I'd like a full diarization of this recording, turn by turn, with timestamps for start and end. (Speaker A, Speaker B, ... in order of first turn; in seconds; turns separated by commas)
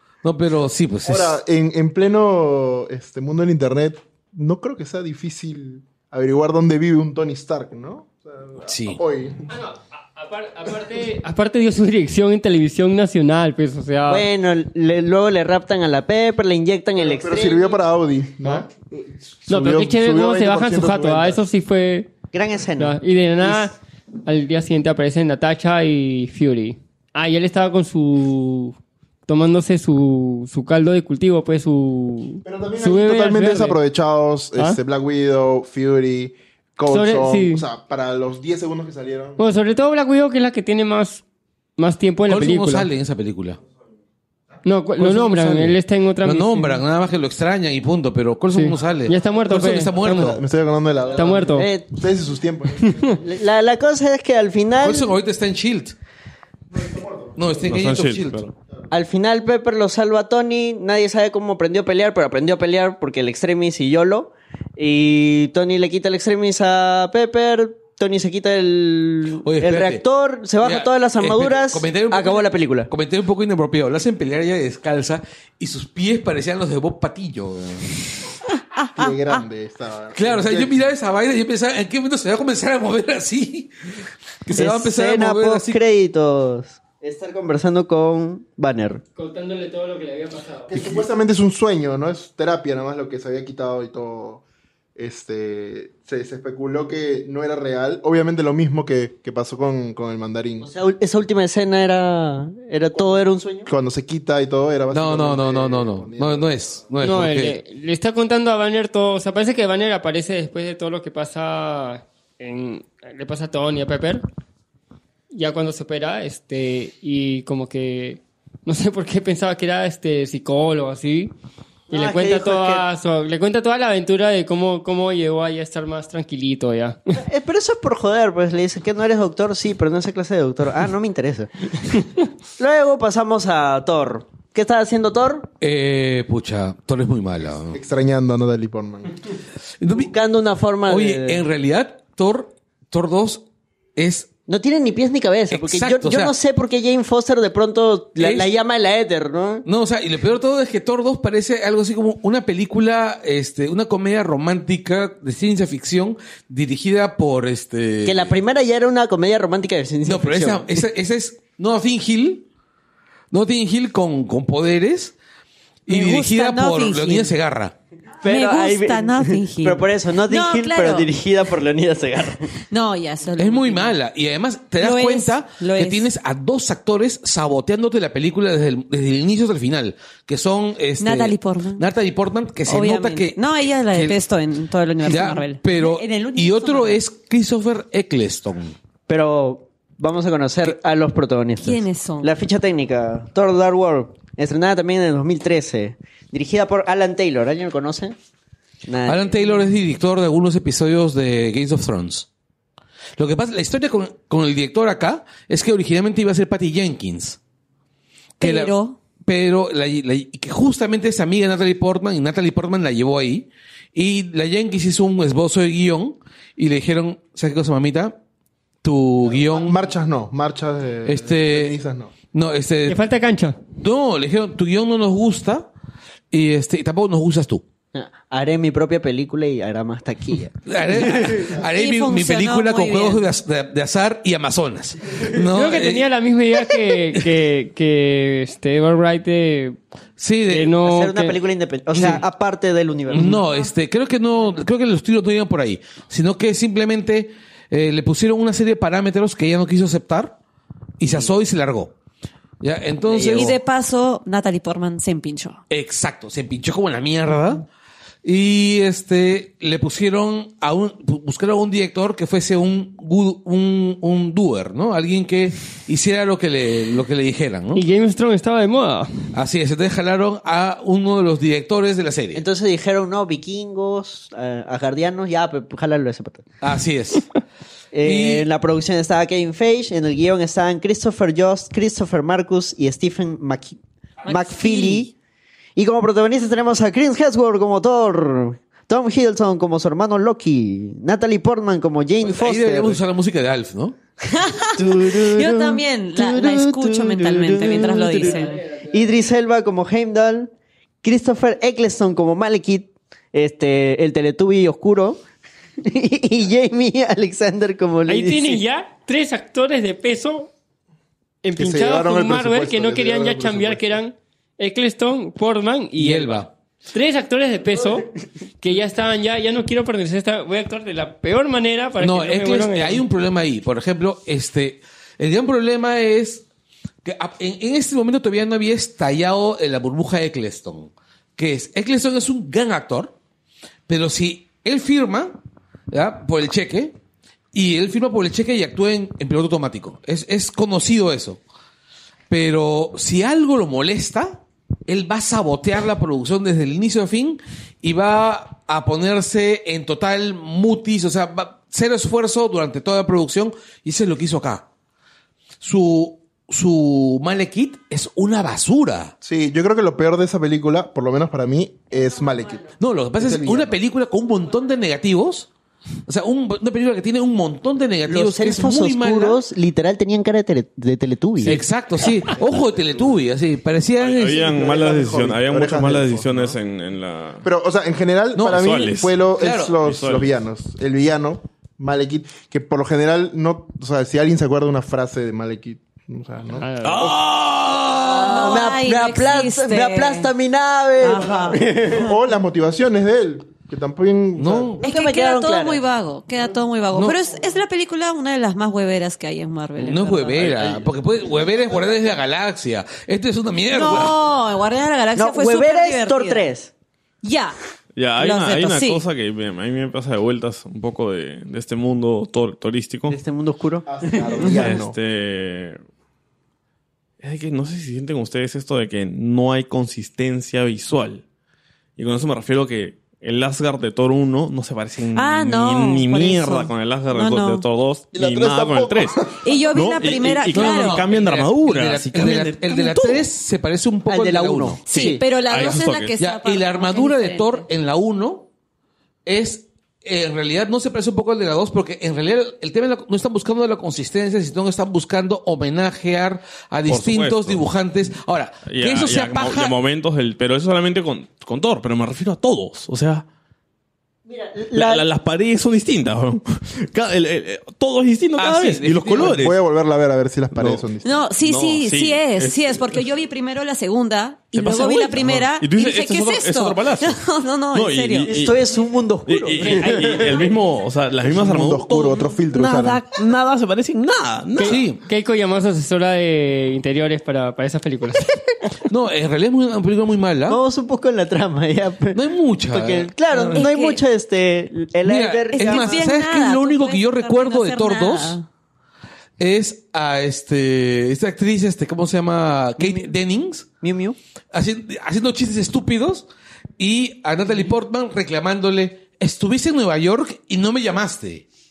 Speaker A: 0.2-1.4, Speaker B: 1.0-9.4, Speaker A: 8.6-9.0, Speaker C: 9.5-14.2, Speaker D: 14.1-17.8, Speaker B: 17.0-21.4, Speaker C: 19.5-22.1, Speaker D: 22.3-23.7, Speaker C: 22.8-28.8, Speaker C: 29.3-33.8, Speaker B: 32.4-39.4, Speaker C: 36.9-37.6, Speaker C: 39.4-41.2, Speaker C: 41.8-42.9, Speaker A: 42.3-43.6, Speaker C: 44.6-46.8, Speaker A: 45.0-50.4, Speaker C: 48.5-50.3, Speaker B: 50.0-53.2, Speaker C: 51.1-51.7, Speaker D: 51.5-51.9, Speaker D: 53.2-55.1, Speaker A: 54.8-55.9, Speaker B: 56.7-57.5, Speaker A: 57.4-58.5, Speaker E: 57.6-58.5, Speaker D: 58.9-72.9, Speaker A: 69.4-70.0, Speaker A: 70.6-78.0, Speaker F: 78.8-79.3, Speaker B: 78.9-80.9, Speaker A: 80.1-83.7, Speaker A: 84.5-85.8, Speaker D: 84.5-89.0, Speaker C: 89.2-90.7, Speaker B: 90.7-94.4, Speaker B: 95.0-100.7, Speaker D: 100.6-103.7, Speaker B: 103.7-106.5, Speaker A: 104.9-107.6, Speaker C: 107.0-114.2, Speaker C: 115.3-121.3, Speaker D: 121.9-122.8, Speaker C: 121.9-127.2, Speaker D: 127.2-135.5, Speaker A: 135.6-137.8, Speaker B: 137.7-139.2, Speaker A: 139.8-140.1, Speaker D: 139.9-141.4, Speaker A: 140.8-143.4, Speaker A: 143.9-144.3, Speaker D: 144.5-149.7, Speaker A: 145.5-146.3, Speaker A: 148.2-148.5, Speaker A: 149.6-158.3, Speaker D: 158.0-160.8, Speaker A: 160.0-162.4, Speaker A: 163.3-165.1, Speaker A: 165.9-167.7, Speaker F: 165.9-167.3, Speaker D: 168.2-172.5, Speaker F: 168.2-171.1, Speaker F: 172.7-173.9, Speaker A: 173.4-183.4, Speaker F: 174.8-176.1, Speaker F: 181.0-181.8, Speaker F: 182.7-187.0, Speaker A: 183.9-184.2, Speaker A: 185.0-188.7, Speaker D: 189.1-198.2, Speaker F: 191.6-192.3, Speaker D: 198.8-199.6, Speaker A: 199.0-202.3, Speaker A: 203.2-207.4, Speaker A: 208.4-218.2, Speaker F: 208.4-209.0, Speaker A: 218.8-219.8, Speaker B: 219.4-222.1, Speaker A: 221.0-223.0, Speaker C: 222.9-223.6, Speaker A: 223.8-225.7, Speaker A: 226.3-227.6, Speaker D: 227.9-231.5, Speaker A: 230.7-236.1, Speaker F: 231.5-233.2, Speaker C: 235.4-239.8, Speaker A: 240.2-240.8, Speaker C: 240.5-241.4, Speaker D: 240.8-243.5, Speaker A: 241.9-242.2, Speaker A: 243.1-250.4, Speaker A: 251.0-251.9, Speaker A: 252.6-253.5, Speaker D: 253.1-253.6, Speaker F: 253.3-255.6, Speaker A: 255.7-257.7, Speaker A: 258.2-267.8, Speaker C: 267.7-269.3, Speaker A: 269.3-272.4, Speaker D: 272.3-276.4, Speaker A: 276.6-277.3, Speaker D: 277.9-285.1, Speaker A: 278.0-278.4, Speaker F: 284.3-284.9, Speaker A: 284.7-285.0, Speaker D: 285.8-293.0, Speaker A: 292.2-293.9, Speaker F: 294.3-298.6, Speaker D: 294.7-305.2, Speaker C: 298.2-299.0, Speaker D: 305.8-308.6, Speaker C: 308.1-310.5, Speaker C: 311.4-323.0, Speaker B: 311.6-314.0, Speaker A: 316.0-316.5, Speaker A: 322.0-326.4, Speaker A: 327.0-333.1, Speaker A: 333.9-335.4, Speaker A: 335.9-336.9, Speaker A: 337.5-341.4, Speaker A: 342.3-354.6, Speaker A: 355.6-359.1, Speaker B: 359.2-363.8, Speaker A: 362.8-365.5, Speaker A: 366.1-369.4, Speaker D: 368.1-371.6, Speaker A: 371.4-374.5, Speaker E: 374.0-377.4, Speaker B: 374.3-376.6, Speaker B: 377.4-386.7, Speaker A: 378.3-378.7, Speaker E: 378.4-380.3, Speaker A: 379.3-379.8, Speaker C: 386.6-387.2, Speaker E: 386.8-388.2, Speaker D: 388.0-392.1, Speaker F: 388.1-390.3, Speaker E: 391.2-391.5, Speaker B: 391.8-394.8, Speaker A: 394.4-394.8, Speaker D: 394.8-395.8, Speaker F: 394.8-400.8, Speaker A: 399.8-404.2, Speaker F: 403.7-406.4, Speaker D: 405.2-406.7, Speaker F: 407.2-407.6, Speaker E: 407.9-413.2, Speaker F: 408.2-409.0, Speaker D: 413.1-414.8, Speaker B: 413.9-414.9, Speaker E: 414.4-415.8, Speaker E: 417.2-421.2, Speaker E: 422.0-433.3, Speaker F: 425.1-427.7, Speaker B: 428.1-429.4, Speaker F: 429.4-431.1, Speaker A: 430.2-434.8, Speaker D: 434.1-435.3, Speaker F: 434.9-437.6, Speaker E: 435.4-436.2, Speaker A: 435.6-438.5, Speaker A: 439.2-449.8, Speaker E: 446.9-447.7, Speaker E: 448.6-453.2, Speaker D: 454.2-455.0, Speaker E: 454.7-459.6, Speaker A: 458.4-459.4, Speaker B: 459.2-461.3, Speaker E: 460.5-460.9, Speaker F: 461.0-468.3, Speaker E: 461.4-463.0, Speaker E: 464.5-467.2, Speaker E: 467.7-468.6, Speaker D: 468.2-470.5, Speaker E: 469.3-474.9, Speaker C: 469.6-470.4, Speaker B: 471.2-473.0, Speaker C: 474.6-478.7, Speaker A: 474.6-475.0, Speaker A: 478.9-480.6, Speaker D: 480.5-486.1, Speaker A: 482.1-483.6, Speaker F: 483.5-484.0, Speaker A: 485.0-488.4, Speaker F: 485.5-488.4, Speaker A: 489.4-493.7, Speaker D: 492.8-493.1, Speaker D: 493.8-494.2, Speaker A: 494.5-496.3, Speaker A: 496.8-501.4